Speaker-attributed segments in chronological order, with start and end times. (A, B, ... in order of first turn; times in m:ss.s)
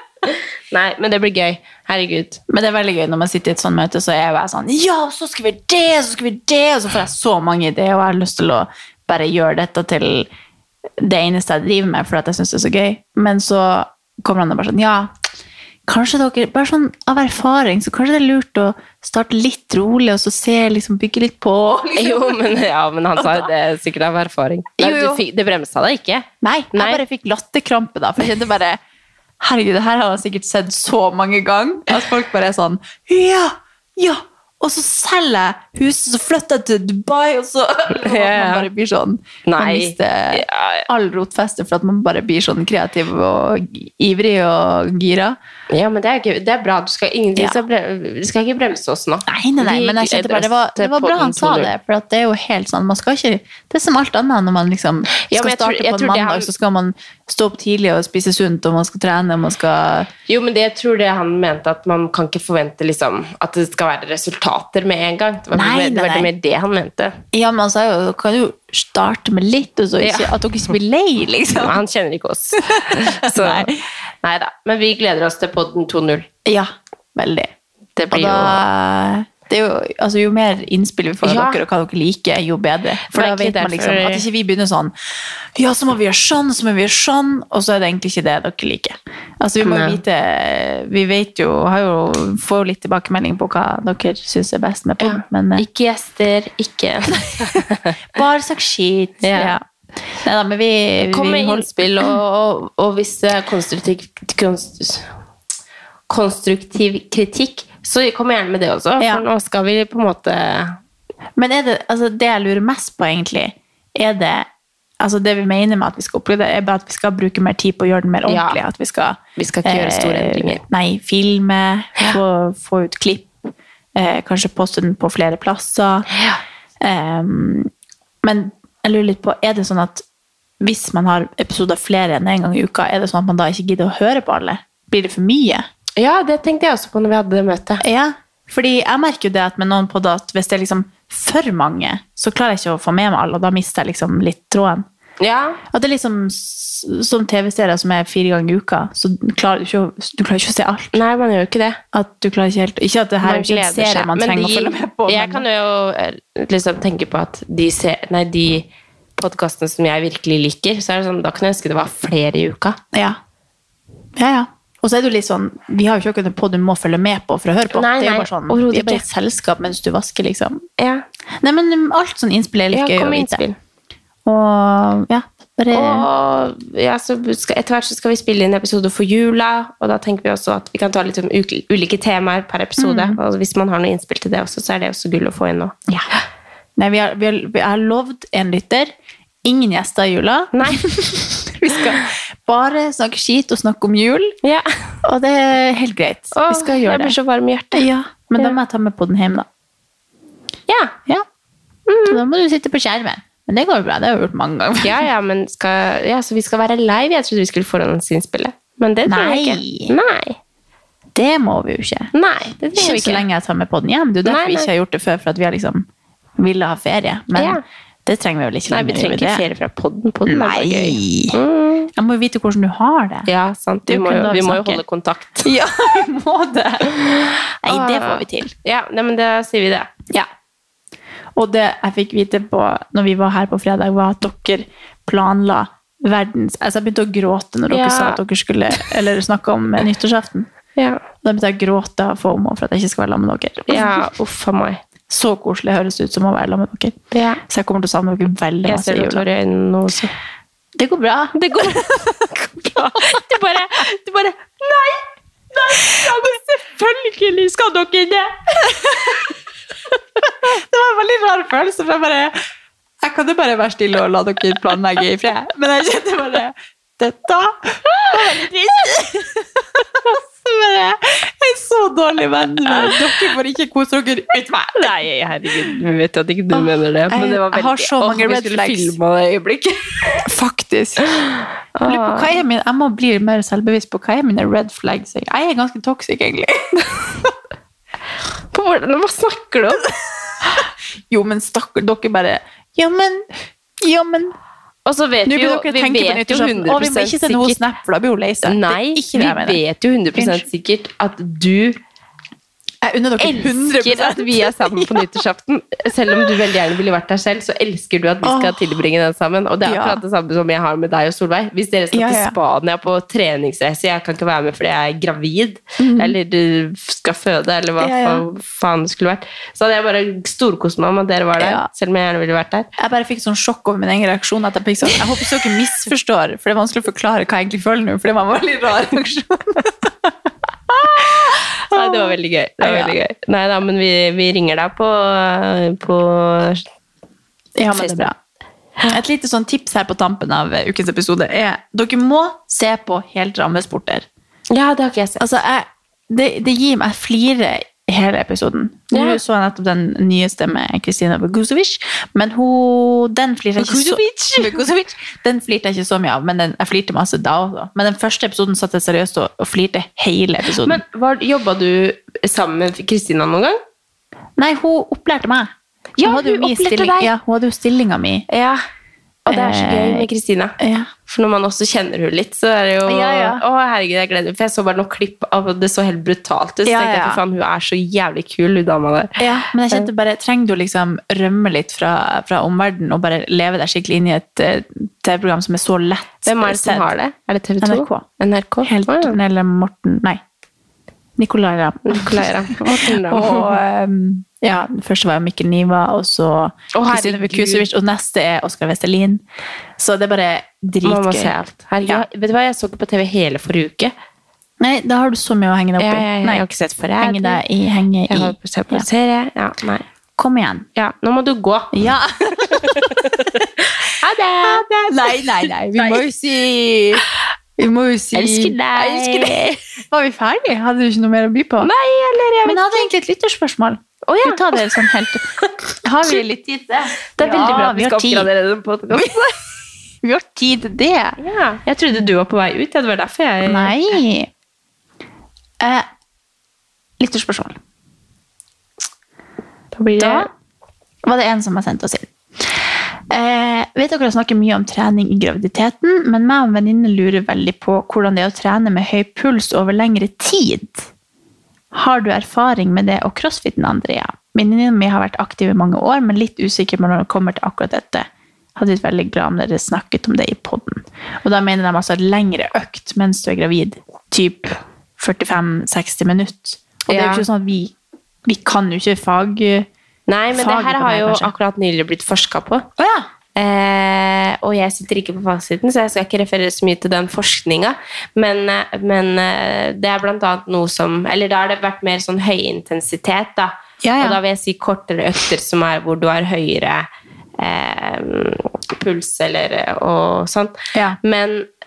0:00.7-0:02.4 A
0:02.5-0:10.3 B
0:11.0-0:15.1 B
0:15.9-0:22.5 B
0:22.0-0:27.0 A
0:23.2-0:23.5 B
0:24.8-0:25.2 B
0:26.4-0:28.8 B
0:29.4-0:45.4 B
0:38.0-0:38.7 A
0:39.4-0:40.9 A
0:45.7-0:51.7 A
0:49.3-1:00.1 B
0:55.2-0:56.5 A
1:00.3-1:07.2 A
1:05.5-1:06.3 B
1:07.3-1:11.8 B
1:10.0-1:10.4 A
1:11.6-1:13.7 A
1:12.6-1:13.7 B
1:14.2-1:16.3 A
1:16.4-1:17.5 B
1:18.0-1:18.6 A
1:18.1-1:24.9 B
1:21.2-1:21.6 A
1:23.1-1:24.2 A
1:25.6-1:35.6 B
1:29.6-1:30.0 A
1:35.0-1:37.9 A
1:38.1-1:39.6 B
1:39.2-1:39.6 A
1:40.2-1:42.2 B
1:41.1-1:45.1 A
1:46.1-1:50.8 A
1:49.0-1:49.2 B
1:51.4-1:54.5 B
1:55.0-2:06.1 B
1:58.3-1:58.6 A
1:59.4-2:00.6 A
2:06.1-2:06.4 A
2:06.8-2:07.7 B
2:08.2-2:10.0 B
2:10.6-2:15.7 B
2:16.0-2:17.8 A
2:17.8-2:24.9 B
2:25.2-2:25.6 A
2:25.7-2:31.0 B
2:30.9-2:31.8 A
2:31.9-2:35.4 B
2:33.2-2:42.8 A
2:42.9-2:43.2 B
2:44.2-2:50.6 B
2:47.7-2:49.0 A
2:50.8-2:51.0 A
2:51.4-2:53.4 B
2:52.7-2:53.6 A
2:54.3-2:56.0 B
2:55.7-3:05.7 A
3:02.8-3:03.2 B
3:06.8-3:08.9 B
3:09.4-3:14.4 B
3:10.5-3:10.8 A
3:14.4-3:14.7 A
3:15.0-3:17.1 B
3:16.3-3:18.5 A
3:17.7-3:19.4 B
3:20.7-3:21.0 A
3:21.9-3:22.2 A
3:22.1-3:25.0 B
3:24.8-3:30.4 A
3:29.1-3:29.9 B
3:31.1-3:32.1 B
3:32.1-3:33.2 A
3:32.7-3:35.9 B
3:34.2-3:34.7 A
3:36.4-3:39.4 B
3:37.4-3:37.6 A
3:38.7-3:41.9 A
3:40.3-3:41.4 B
3:42.0-3:43.3 B
3:43.3-3:45.5 A
3:43.9-3:44.8 B
3:45.4-3:48.5 B
3:47.7-3:49.9 A
3:51.4-4:00.5 B
3:57.7-3:58.2 A
4:00.8-4:01.0 A
4:01.2-4:04.1 B
4:03.7-4:04.8 A
4:05.1-4:07.0 B
4:07.1-4:07.4 A
4:07.5-4:09.2 B
4:08.6-4:10.1 A
4:10.8-4:13.2 B
4:11.3-4:19.2 A
4:18.7-4:19.1 B
4:20.4-4:22.4 B
4:23.0-4:34.9 B
4:32.7-4:33.0 A
4:34.7-4:40.2 A
4:36.5-4:39.0 B
4:40.2-4:41.2 B
4:41.8-4:42.3 A
4:41.8-4:47.3 B
4:48.5-4:49.9 A
4:50.4-4:53.3 B
4:53.8-4:54.3 B
4:54.9-4:57.6 A
4:55.3-4:59.6 B
4:58.4-5:01.8 A
5:00.2-5:00.4 B
5:02.8-5:05.1 B
5:03.2-5:22.7 A
5:08.2-5:08.6 B
5:09.6-5:10.0 B
5:11.9-5:12.4 B
5:15.8-5:16.1 B
5:17.8-5:18.2 B
5:21.4-5:21.7 B
5:22.8-5:30.1 B
5:30.7-5:32.9 B
5:30.9-5:36.6 A
5:37.6-5:38.1 B
5:37.7-5:38.1 A
5:38.9-5:44.0 B
5:44.5-5:45.2 A
5:45.2-6:00.8 B
5:48.9-5:49.2 A
5:53.6-5:54.6 A
6:00.6-6:03.6 A
6:04.4-6:08.3 B
6:06.0-6:07.1 A
6:08.3-6:08.6 A
6:09.3-6:10.6 A
6:09.3-6:10.1 B
6:10.6-6:10.9 B
6:11.1-6:19.2 A
6:12.9-6:13.4 B
6:16.7-6:17.2 B
6:19.2-6:26.9 B
6:26.2-6:29.2 A
6:27.6-6:28.0 B
6:28.7-6:30.2 B
6:31.2-6:39.2 B
6:31.9-6:33.6 A
6:36.7-6:37.7 A
6:39.8-6:41.3 B
6:40.8-6:43.9 A
6:44.6-6:46.4 B
6:45.8-6:47.4 A
6:47.0-6:48.9 B
6:48.1-6:49.8 A
6:50.2-6:50.7 B
6:50.8-6:51.7 A
6:51.7-6:53.4 B
6:52.4-6:53.2 A
6:54.0-6:56.0 A
6:54.5-6:57.0 B
6:57.6-7:01.7 B
6:58.1-6:59.6 A
7:01.6-7:02.8 A
7:02.4-7:05.3 B
7:04.0-7:04.4 A
7:05.8-7:08.3 B
7:07.2-7:09.3 A
7:09.0-7:09.3 B
7:10.0-7:11.2 B
7:11.2-7:13.7 A
7:13.4-7:14.3 B
7:15.6-7:15.9 B
7:17.0-7:17.6 B
7:19.7-7:20.3 A
7:20.0-7:20.3 B
7:21.0-7:30.9 B
7:31.7-7:47.7 B
7:46.9-7:47.2 A
7:48.2-7:49.7 B
7:50.1-7:52.7 A
7:50.3-7:51.3 B
7:52.8-7:53.1 B
7:53.3-8:06.9 A
8:03.8-8:04.2 B
8:07.4-8:11.5 A